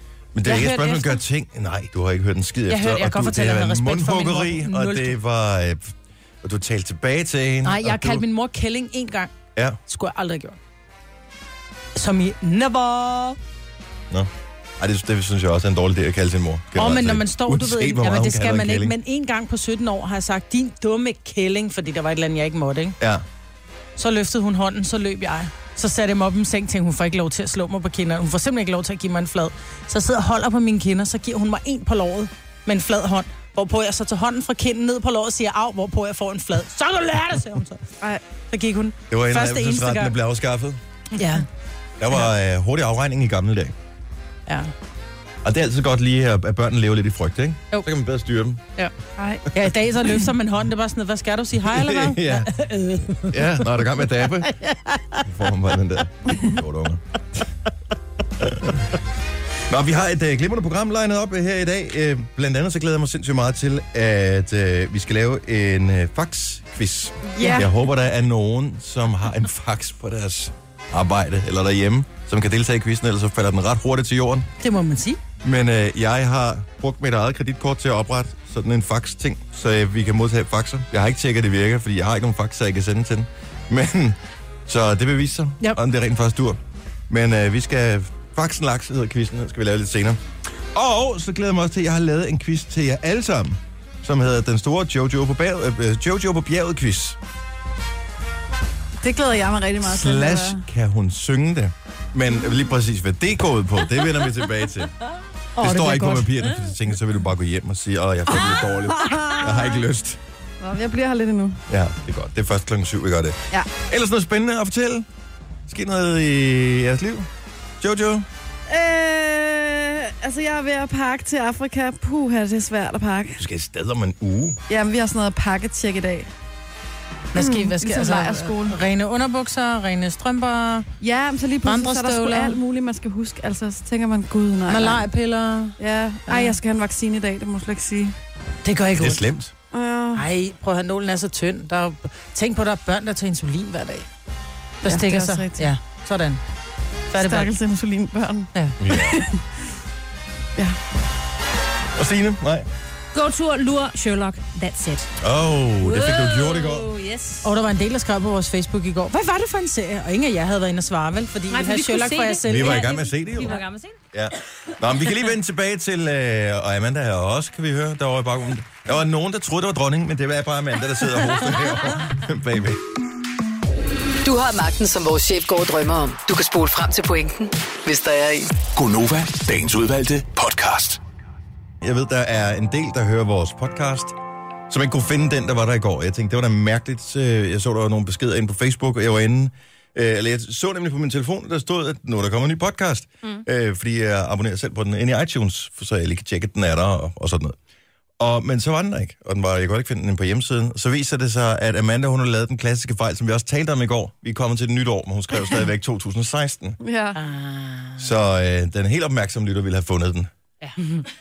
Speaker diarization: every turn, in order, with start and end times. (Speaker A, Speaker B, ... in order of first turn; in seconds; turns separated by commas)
Speaker A: 0.3-8.2, Speaker B: 0.4-1.2, Speaker B: 2.7-5.2, Speaker B: 7.6-9.3, Speaker B: 9.9-10.6, Speaker B: 11.9-13.4, Speaker A: 14.1-19.0, Speaker B: 16.7-23.0, Speaker A: 23.0-23.2, Speaker B: 24.0-37.9, Speaker B: 38.5-40.2, Speaker A: 39.1-40.8, Speaker B: 41.1-41.5, Speaker A: 42.0-43.7, Speaker A: 45.4-48.6, Speaker B: 48.8-55.2, Speaker A: 51.6-52.6, Speaker A: 53.2-54.5, Speaker A: 55.2-57.4, Speaker A: 58.4-58.8, Speaker A: 59.7-74.5, Speaker C: 67.3-67.7, Speaker B: 74.6-75.2, Speaker A: 75.4-90.2, Speaker A: 90.7-97.2, Speaker C: 99.0-100.6, Speaker A: 99.8-104.9, Speaker B: 105.5-106.5, Speaker A: 105.6-110.2, Speaker C: 108.3-109.4, Speaker B: 109.1-109.5, Speaker C: 110.6-111.6, Speaker A: 111.7-115.1, Speaker A: 115.7-117.3, Speaker A: 117.8-118.2, Speaker C: 118.7-123.4, Speaker A: 123.4-124.6, Speaker C: 124.7-126.3, Speaker B: 127.3-130.9, Speaker C: 127.3-128.8, Speaker C: 131.0-135.0, Speaker B: 131.7-132.6, Speaker B: 134.7-136.6, Speaker C: 135.8-138.1, Speaker B: 138.6-139.2, Speaker A: 139.0-139.5, Speaker C: 139.7-140.2, Speaker B: 140.1-144.1, Speaker C: 144.8-145.7, Speaker B: 144.8-146.4, Speaker B: 147.1-147.5, Speaker C: 147.1-149.4, Speaker A: 148.8-149.2, Speaker A: 151.9-152.7, Speaker D: 153.1-155.1, Speaker A: 155.2-156.9, Speaker D: 155.8-157.5, Speaker B: 157.4-163.6, Speaker D: 161.5-164.0, Speaker A: 162.5-163.6, Speaker A: 164.1-172.8, Speaker E: 174.2-178.5, Speaker F: 178.7-181.0, Speaker A: 181.8-184.2, Speaker A: 184.7-197.6, Speaker A: 198.2-206.8, Speaker C: 206.8-207.2, Speaker B: 207.2-208.1, Speaker A: 208.0-210.3, Speaker B: 210.7-211.0